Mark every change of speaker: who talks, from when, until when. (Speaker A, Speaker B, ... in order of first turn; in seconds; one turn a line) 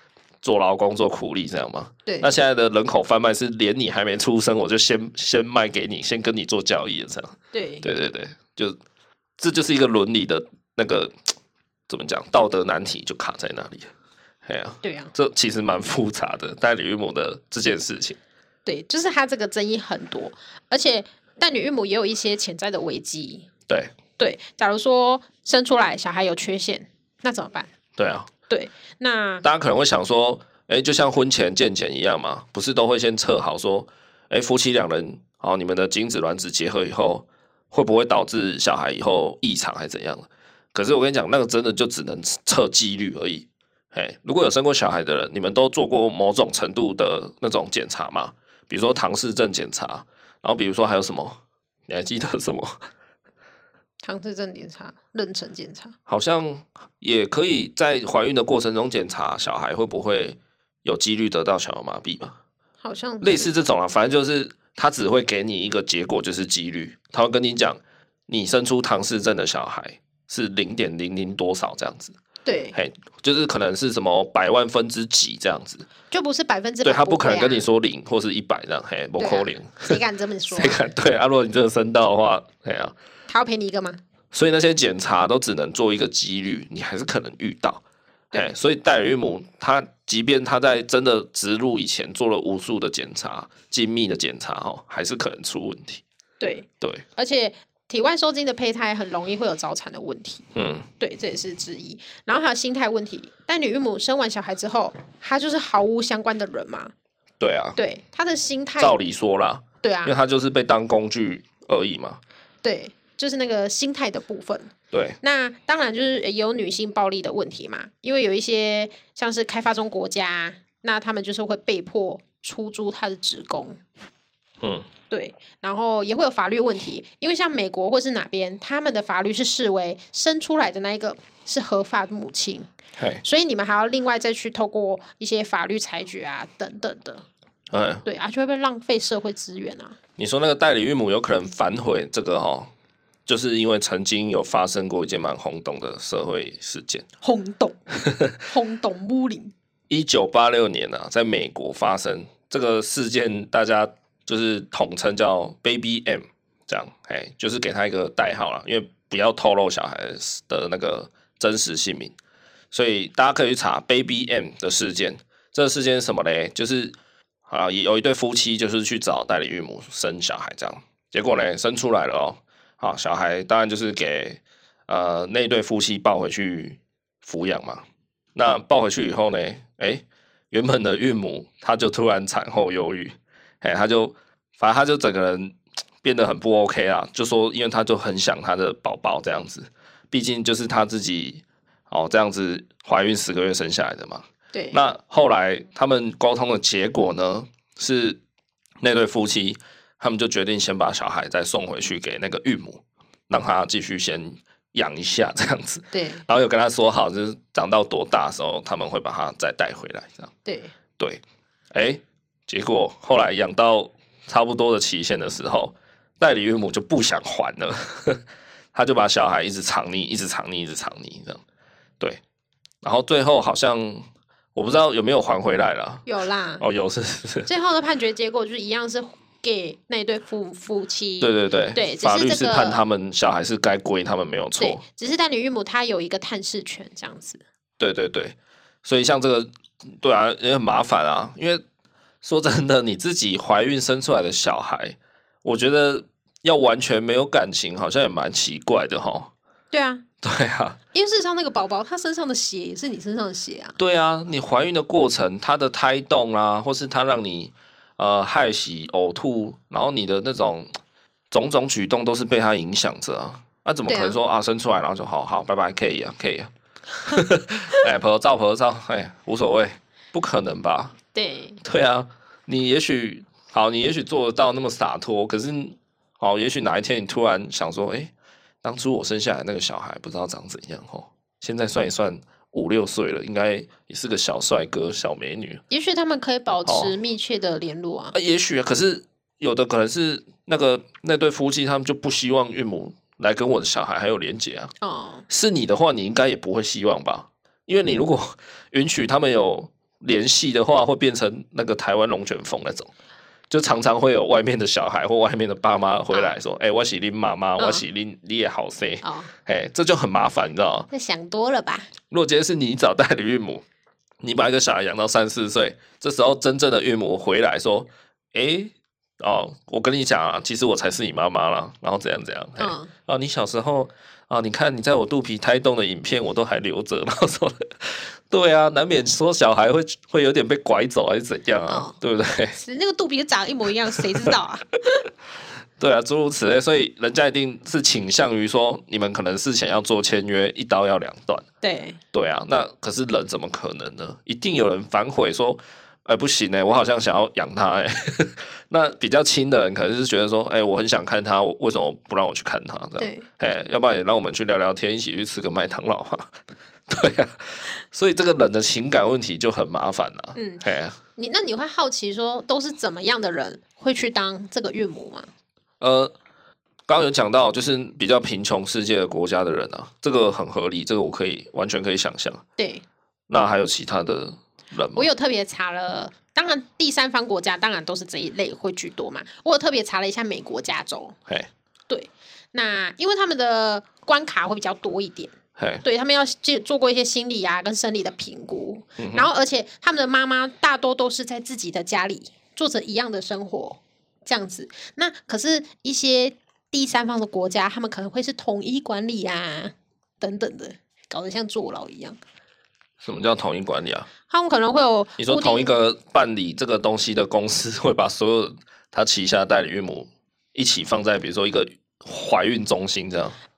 Speaker A: 0.4-8.8
Speaker B: 7.5-7.8
Speaker A: 9.4-11.3
Speaker A: 11.9-13.9
Speaker A: 14.4-18.2
Speaker B: 14.8-15.1
Speaker B: 18.7-23.5
Speaker B: 24.2-27.7
Speaker A: 28.0-28.3
Speaker B: 28.5-29.4
Speaker A: 29.4-52.7
Speaker B: 54.0-56.0
Speaker A: 56.1-62.4
Speaker B: 62.8-63.5
Speaker A: 63.2-72.2
Speaker B: 72.5-72.8
Speaker A: 72.7-75.9
Speaker B: 76.1-77.7
Speaker A: 76.8-80.0
Speaker B: 79.2-80.8
Speaker A: 80.5-83.0
Speaker B: 83.3-84.0
Speaker A: 84.3-96.0
Speaker B: 96.4-100.5
Speaker A: 100.5-100.9
Speaker B: 101.0-106.9
Speaker A: 107.4-107.8
Speaker B: 107.8-109.0
Speaker A: 108.8-112.2
Speaker B: 109.8-110.1
Speaker B: 112.6-123.8
Speaker A: 114.9-115.2
Speaker A: 124.6-124.9
Speaker B: 125.1-132.7
Speaker A: 133.0-133.2
Speaker B: 133.2-137.3
Speaker A: 137.7-138.1
Speaker B: 138.1-140.0
Speaker A: 140.2-142.7
Speaker A: 143.3-147.1
Speaker B: 147.2-147.8
Speaker A: 148.1-148.3
Speaker B: 148.4-149.5
Speaker A: 149.9-162.2
Speaker A: 162.7-167.0
Speaker A: 167.5-177.8
Speaker A: 178.3-198.2
Speaker B: 194.5-194.8
Speaker A: 198.8-210.3
Speaker B: 205.9-206.2
Speaker B: 210.4-210.7
Speaker A: 211.7-218.2
Speaker A: 218.7-221.4
Speaker A: 222.8-226.1
Speaker B: 226.1-226.7
Speaker A: 226.6-227.5
Speaker B: 227.5-232.8
Speaker A: 231.2-234.8
Speaker B: 234.6-237.4
Speaker A: 237.8-241.6
Speaker A: 242.2-249.3
Speaker B: 249.7-250.0
Speaker A: 250.2-250.8
Speaker B: 250.9-253.8
Speaker A: 253.8-260.7
Speaker A: 261.3-266.5
Speaker B: 263.9-264.2
Speaker A: 267.0-270.9
Speaker B: 271.1-271.6
Speaker A: 271.6-278.1
Speaker A: 278.6-285.6
Speaker B: 285.7-288.2
Speaker A: 286.6-286.9
Speaker A: 288.1-294.7
Speaker B: 294.8-295.2
Speaker A: 295.3-302.9
Speaker A: 303.5-310.9
Speaker B: 307.6-307.8
Speaker B: 309.0-309.3
Speaker B: 310.9-311.9
Speaker A: 312.1-313.6
Speaker A: 314.2-332.6
Speaker B: 322.6-322.9
Speaker B: 331.7-331.9
Speaker B: 332.6-335.1
Speaker A: 335.8-341.4
Speaker B: 341.6-342.0
Speaker A: 342.1-356.3
Speaker B: 353.0-353.3
Speaker A: 356.9-361.0
Speaker B: 360.4-360.6
Speaker B: 361.2-365.3
Speaker A: 365.8-366.1
Speaker A: 366.9-372.4
Speaker B: 372.6-372.8
Speaker A: 373.3-375.1
Speaker B: 374.9-381.2
Speaker B: 381.9-402.2
Speaker A: 385.6-385.8
Speaker A: 389.0-389.3
Speaker A: 403.0-404.1
Speaker B: 404.3-405.7
Speaker A: 405.2-413.4